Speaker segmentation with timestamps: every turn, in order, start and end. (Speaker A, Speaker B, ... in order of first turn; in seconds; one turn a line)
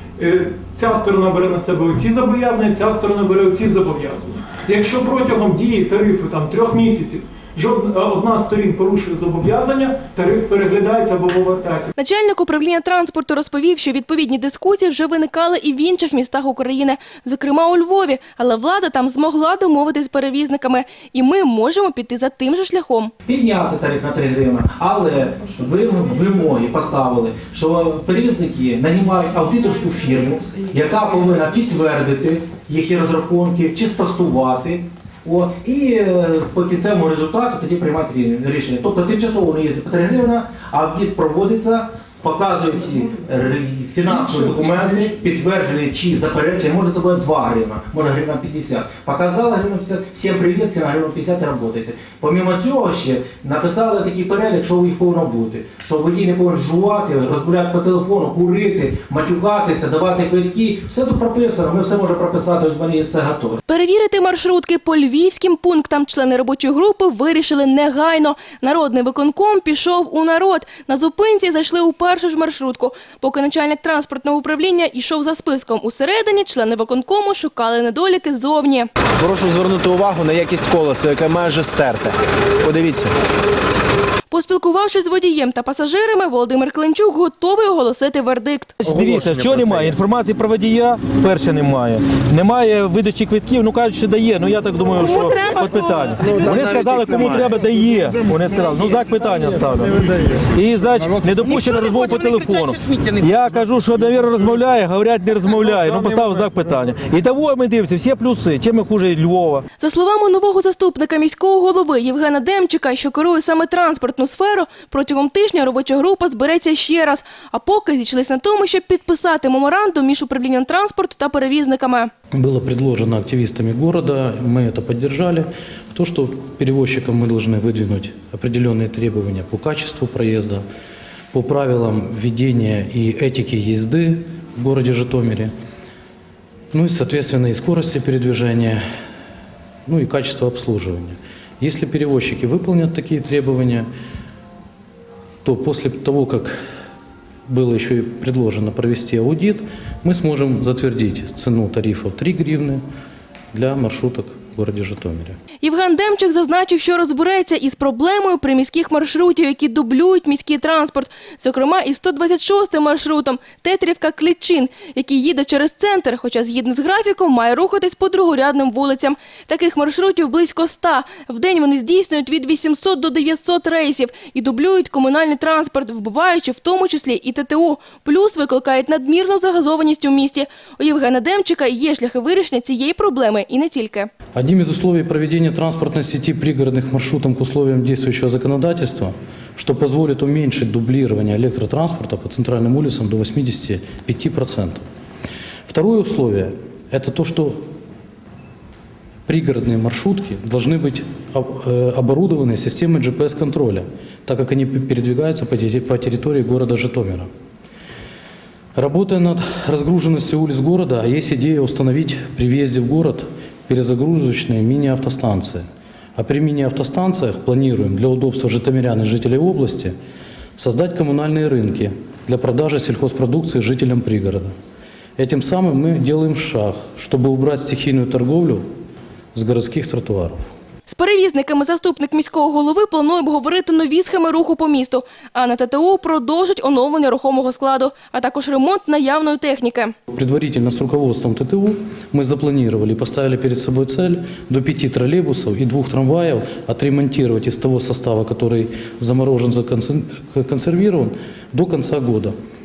Speaker A: 0.2-11.9
Speaker B: 11.9-23.1
Speaker C: 23.2-63.6
Speaker B: 63.7-78.9
Speaker D: 79.2-83.1
Speaker C: 80.8-81.4
Speaker B: 84.3-88.8
Speaker E: 88.8-109.6
Speaker B: 95.0-96.3
Speaker B: 109.8-122.1
Speaker F: 122.3-130.6
Speaker F: 131.3-135.5
Speaker F: 136.7-138.8
Speaker F: 139.8-143.9
Speaker F: 145.4-146.6
Speaker F: 147.5-152.8
Speaker F: 153.5-155.4
Speaker B: 155.6-184.1
Speaker F: 184.3-194.8
Speaker F: 195.7-197.6
Speaker F: 199.2-207.3
Speaker F: 208.8-215.6
Speaker F: 216.2-219.9
Speaker F: 220.6-224.5
Speaker F: 225.2-228.6
Speaker F: 229.3-230.4
Speaker B: 230.9-239.9
Speaker F: 240.1-252.3